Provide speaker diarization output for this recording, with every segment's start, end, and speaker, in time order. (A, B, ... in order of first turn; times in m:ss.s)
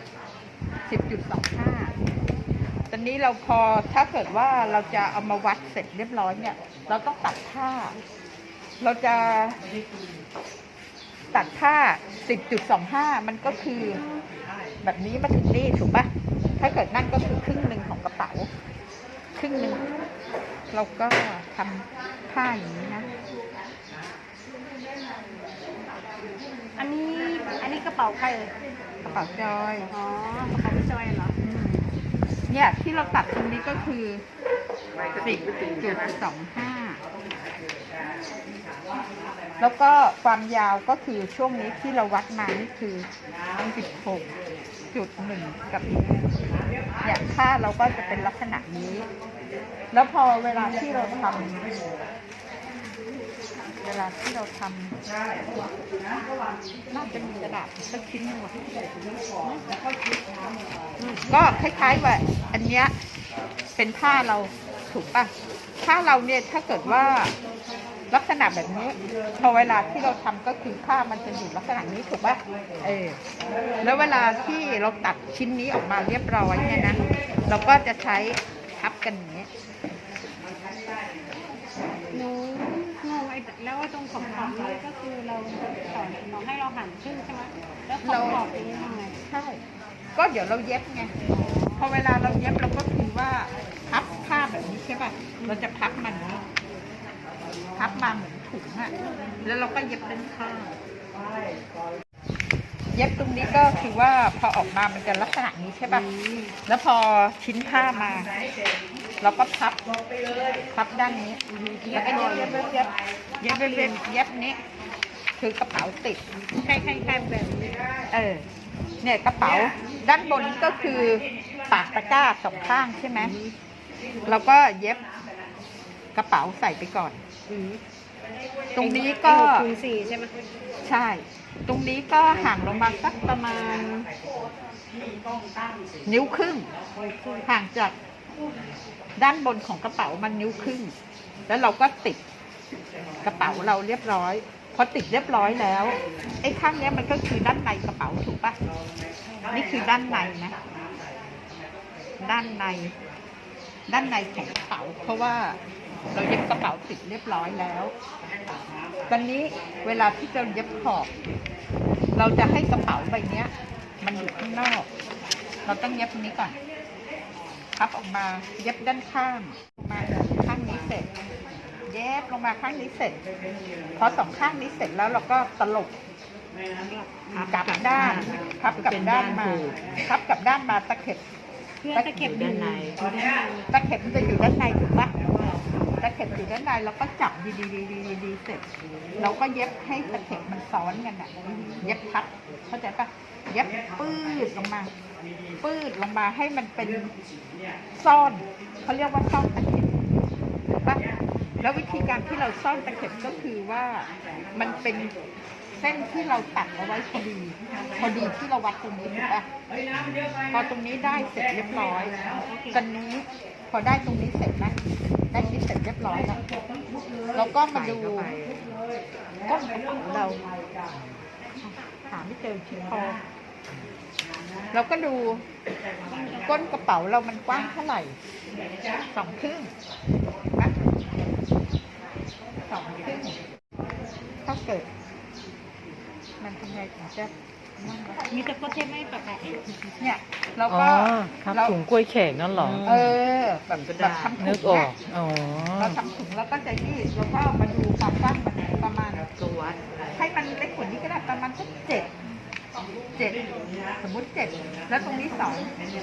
0:00.9-0:01.9 A
0:02.9-0:08.0 A
0:08.8-0:09.6 A
0:11.3-0:14.0 A
0:14.8-0:18.5 A
0:19.4-0:19.8 A
0:20.7-0:23.1 A
0:26.8-0:28.5 B
0:29.0-0:29.9 A
0:29.9-0:31.4 B
0:31.4-0:31.9 A
0:32.5-0:34.2 A
0:35.2-0:37.0 A
0:39.6-0:43.1 A
0:43.6-0:44.3 A
0:44.9-0:46.0 A
0:47.0-0:49.1 A
0:49.9-0:51.6 A
0:53.8-0:55.0 A
0:56.9-0:58.6 A
1:01.0-1:01.2 B
1:01.3-1:02.9 A
1:03.8-1:05.3 A
1:05.8-1:07.3 A
1:08.1-1:13.2 A
1:13.8-1:19.5 A
1:22.1-1:29.2 B
1:28.0-1:28.4 A
1:29.2-1:29.6 A
1:30.2-1:31.1 A
1:31.4-1:31.8 B
1:31.8-1:36.4 A
1:37.8-1:38.9 A
1:39.4-1:40.8 A
1:42.9-1:46.0 A
1:45.9-1:46.6 B
1:46.7-1:48.3 A
1:49.2-1:49.8 A
1:50.7-1:51.4 A
1:51.5-1:52.6 B
1:51.9-1:52.9 A
1:53.4-1:54.6 A
1:53.4-1:54.0 B
1:55.4-1:56.2 A
1:56.6-1:57.8 B
1:58.1-1:58.4 A
1:59.0-2:03.3 A
2:03.2-2:03.5 B
2:04.3-2:05.1 A
2:06.2-2:07.2 A
2:07.5-2:07.8 B
2:08.8-2:09.7 A
2:08.8-2:10.3 B
2:10.8-2:14.1 A
2:16.0-2:16.7 A
2:17.1-2:17.4 B
2:17.4-2:18.0 A
2:19.2-2:20.9 A
2:21.5-2:22.2 A
2:23.2-2:28.6 A
2:29.5-2:30.6 A
2:32.2-2:32.9 A
2:33.9-2:35.6 A
2:36.1-2:37.9 A
2:39.1-2:41.1 A
2:42.2-2:44.9 A
2:45.7-2:46.6 A
2:47.8-2:51.1 A
2:51.9-2:53.2 A
2:54.0-2:56.0 A
2:56.8-2:57.6 B
2:57.4-2:59.8 C
2:57.4-3:01.2 A
3:01.8-3:03.6 B
3:01.9-3:02.4 A
3:02.2-3:03.0 C
3:03.7-3:05.2 A
3:06.0-3:08.6 A
3:09.2-3:14.9 A
3:15.6-3:17.1 A
3:18.0-3:20.0 A
3:20.7-3:21.0 A
3:21.6-3:25.1 A
3:25.8-3:29.5 A
3:30.5-3:32.2 A
3:32.3-3:32.8 B
3:32.7-3:36.4 A
3:37.3-3:38.4 A
3:37.7-3:38.6 C
3:39.4-3:40.4 A
3:41.6-3:43.2 A
3:44.7-3:45.4 A
3:46.1-3:46.4 B
3:46.3-3:48.2 A
3:49.1-3:49.7 A
3:52.7-3:53.4 A
3:54.4-3:54.9 A
3:56.4-3:58.5 A
3:58.3-3:59.6 B
4:00.0-4:01.8 A
4:00.7-4:03.2 C
4:02.8-4:05.0 A
4:03.7-4:05.9 C
4:05.8-4:09.3 A
4:09.4-4:09.8 C
4:10.1-4:12.1 A
4:14.0-4:15.7 A